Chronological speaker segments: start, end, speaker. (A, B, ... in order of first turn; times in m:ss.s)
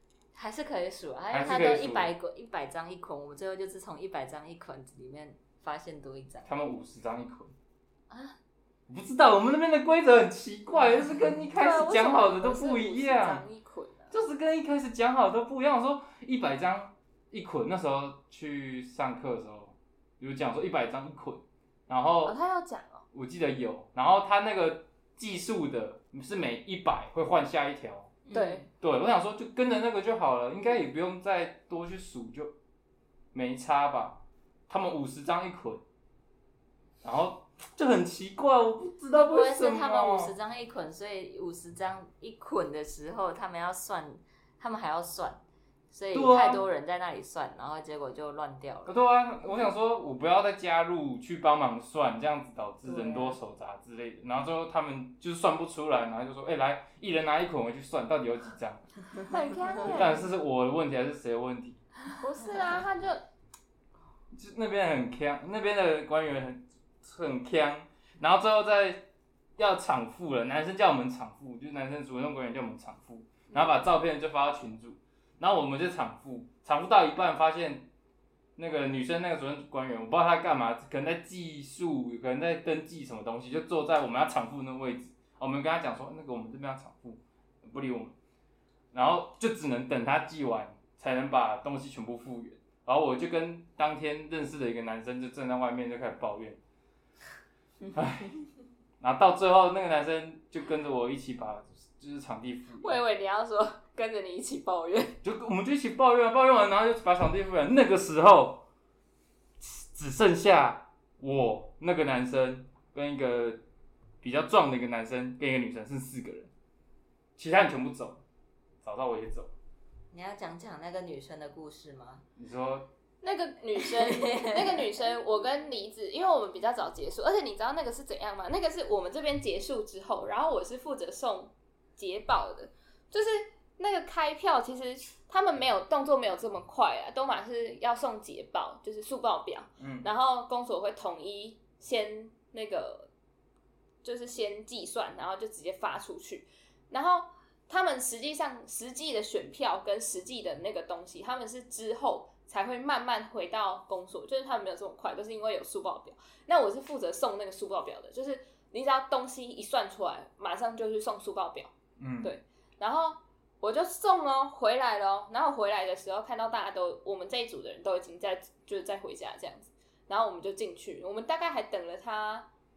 0:00.3-0:06.5 A
0:01.3-0:02.1 B
0:06.4-0:07.5 B
0:08.1-0:08.4 A
0:08.9-0:13.4 B
0:11.6-0:14.2 C
0:14.1-0:22.4 B
0:22.2-0:23.0 C
0:23.1-0:28.2 B
0:28.3-0:28.7 A
0:28.3-0:28.7 C
0:28.8-0:32.5 B
0:33.3-0:35.8 B
0:37.0-0:40.4 B
0:39.1-0:48.9 A
0:46.1-0:46.6 B
0:48.9-0:58.8 B
0:52.8-0:53.4 A
0:59.2-1:00.3 C
0:59.8-1:01.8 B
1:02.2-1:03.2 C
1:04.3-1:17.9 B
1:13.5-1:13.8 C
1:18.6-1:28.2 B
1:28.9-1:36.6 B
1:37.9-1:38.4 B
1:39.0-1:43.0 B
1:42.8-1:45.2 C
1:45.2-1:48.6 B
1:49.6-1:53.6 B
1:54.2-1:56.5 B
1:57.4-1:58.2 B
1:58.8-1:59.5 B
2:00.1-2:02.2 A
2:02.4-2:02.9 B
2:03.2-2:23.1 C
2:03.9-2:04.8 A
2:19.8-2:20.1 B
2:24.0-2:52.5 C
2:42.0-2:42.3 B